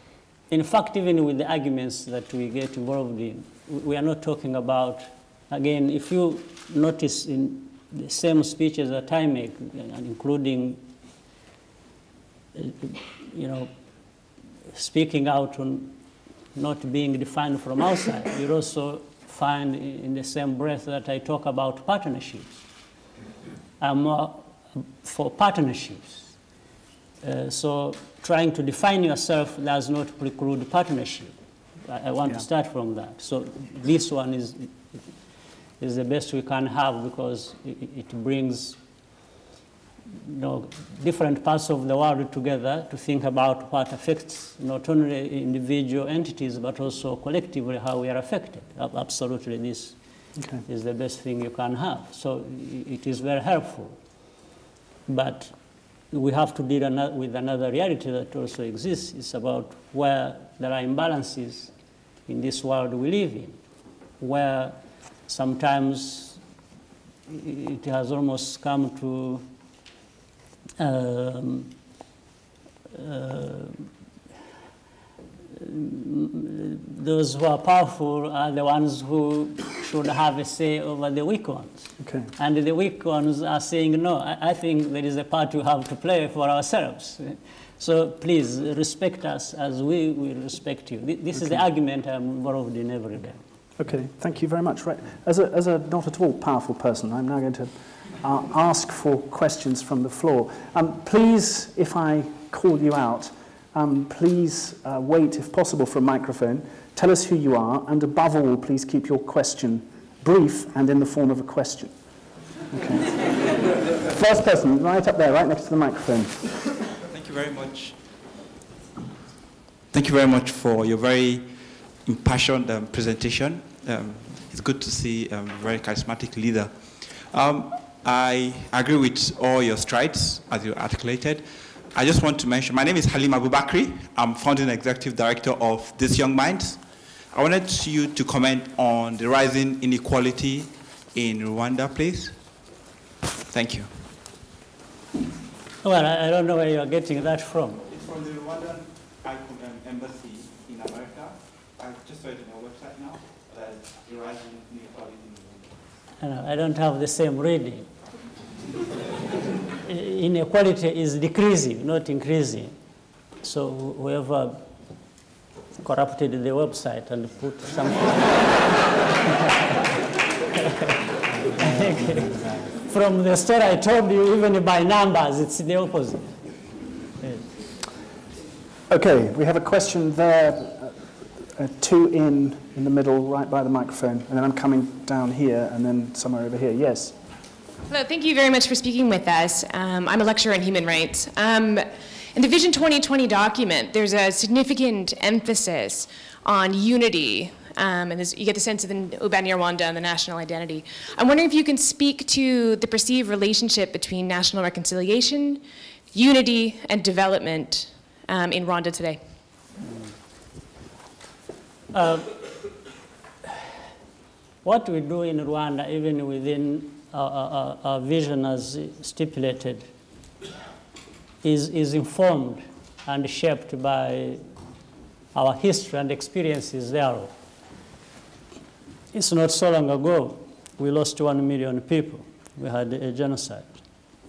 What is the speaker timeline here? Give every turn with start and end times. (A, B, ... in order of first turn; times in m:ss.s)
0:00.5-0:10.8 A
0:12.5-0:13.7 A
0:14.7-0:16.0 A
0:16.5-0:22.6 A
0:23.8-0:26.3 A
0:27.2-0:31.3 A
0:31.8-0:34.7 A
0:35.8-0:38.8 A
0:40.2-0:50.0 A
0:50.6-0:53.9 A
0:55.1-0:55.5 A
0:56.1-1:01.7 A
1:02.3-1:03.6 A
1:04.2-1:06.4 A
1:07.3-1:09.4 A
1:10.8-1:11.7 A
1:12.9-1:13.9 A
1:15.5-1:33.4 A
1:22.0-1:22.3 B
1:33.8-1:51.9 B
1:52.7-1:56.5 B
1:57.0-1:58.0 C
1:59.9-2:22.4 C
2:23.5-2:23.9 C
2:25.8-2:27.8 A
2:27.9-2:35.8 C
2:36.2-2:37.9 A
2:39.8-2:42.7 A
2:43.4-2:44.6 A
2:45.8-2:48.7 A
2:49.2-2:49.8 A
2:50.6-2:50.9 A
2:51.5-2:56.3 A
2:51.6-2:52.3 B
2:58.9-3:07.2 B
3:07.9-3:29.2 D
3:31.9-3:32.4 A
3:34.6-3:39.9 A
3:41.4-3:44.4 A
3:45.3-3:47.3 A
3:49.1-3:53.7 A